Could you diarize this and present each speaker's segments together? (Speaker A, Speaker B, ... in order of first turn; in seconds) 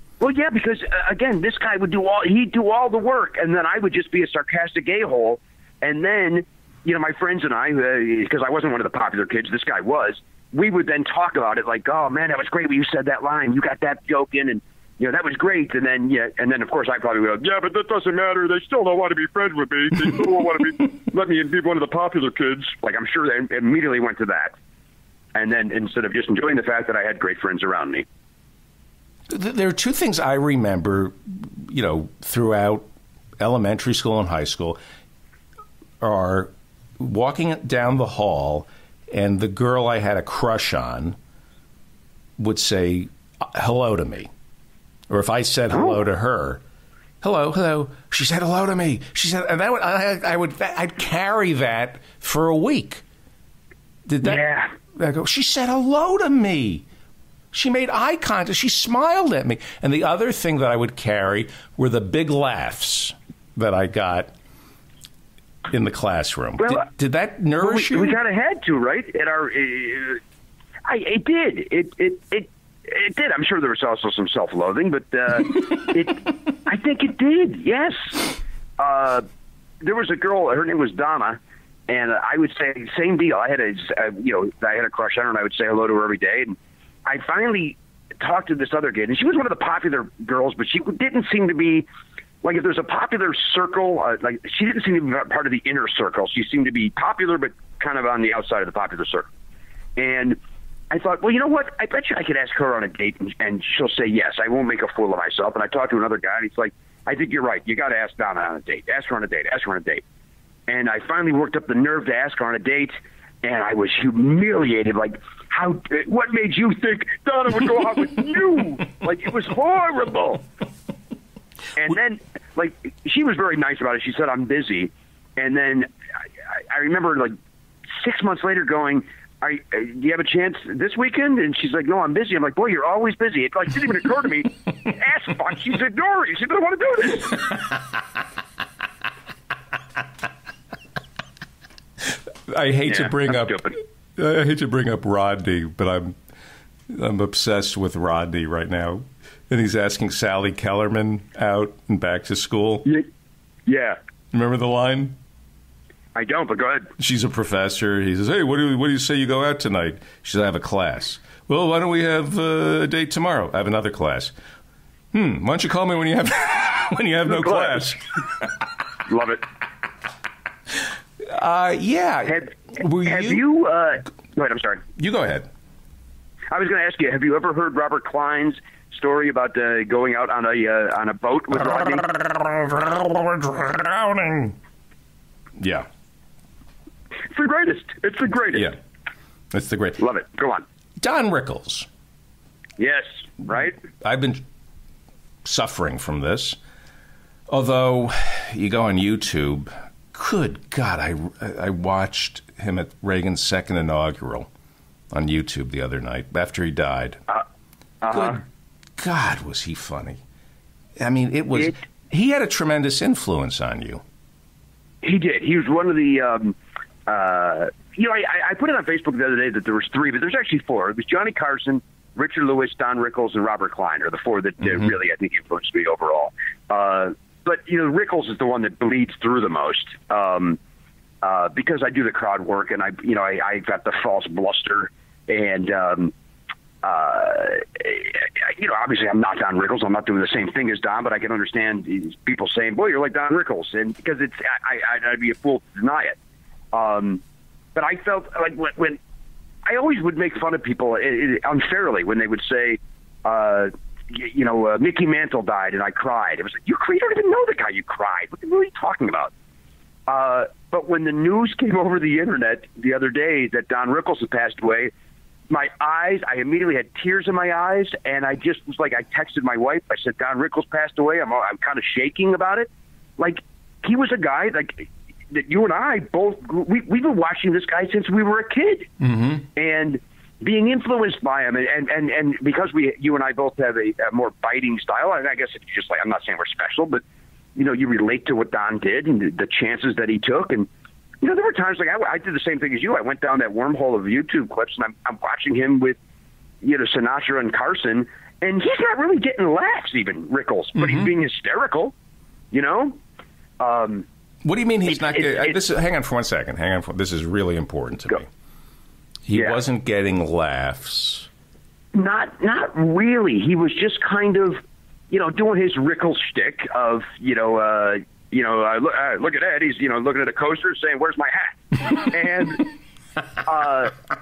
Speaker A: 0.2-24.5, 25.3-28.1, 54.2-54.7, 66.6-66.8, 67.6-70.2, 70.8-79.2, 79.8-91.8, 92.4-99.3, 100.0-100.4, 100.9-110.0, 110.7-120.4, 121.8-125.9, 126.5-127.3, 127.9-137.6, 142.9-143.8, 153.7-154.0, 156.1-156.9, 167.3-167.8, 169.1-169.4, 172.3-174.8, 176.5-182.1, 187.3-188.7, 190.0-190.6, 192.8-193.8, 208.0-208.4, 215.0-230.6, 231.2-236.1, 236.8-246.2, 246.7-247.2, 247.7-249.0, 249.7-259.3, 260.1-264.9, 265.5-278.9, 279.5-287.0, 287.6-290.7, 291.2-296.0, 296.6-301.9, 302.5-303.0, 303.6-304.1, 304.9-305.6, 311.9-322.7, 323.4-323.9
Speaker B: 29.3-32.9, 33.4-34.8, 36.0-41.2, 42.4-44.3, 45.1-46.6, 47.2-53.0, 54.1-54.4, 54.9-56.8, 57.5-64.3, 65.7-68.2, 142.1-146.1, 146.9-152.9, 154.3-155.2, 157.0-164.3, 165.1-168.5, 171.2-173.4, 175.0-175.5, 182.1-184.6, 185.6-185.9, 189.5-190.0, 191.0-191.9, 193.6-194.4, 195.4-196.6, 197.5-204.5, 205.1-207.2, 208.1-208.4, 209.0-210.2, 211.0-214.0, 279.0-279.4, 300.8-301.1, 304.4-308.3, 309.2-311.3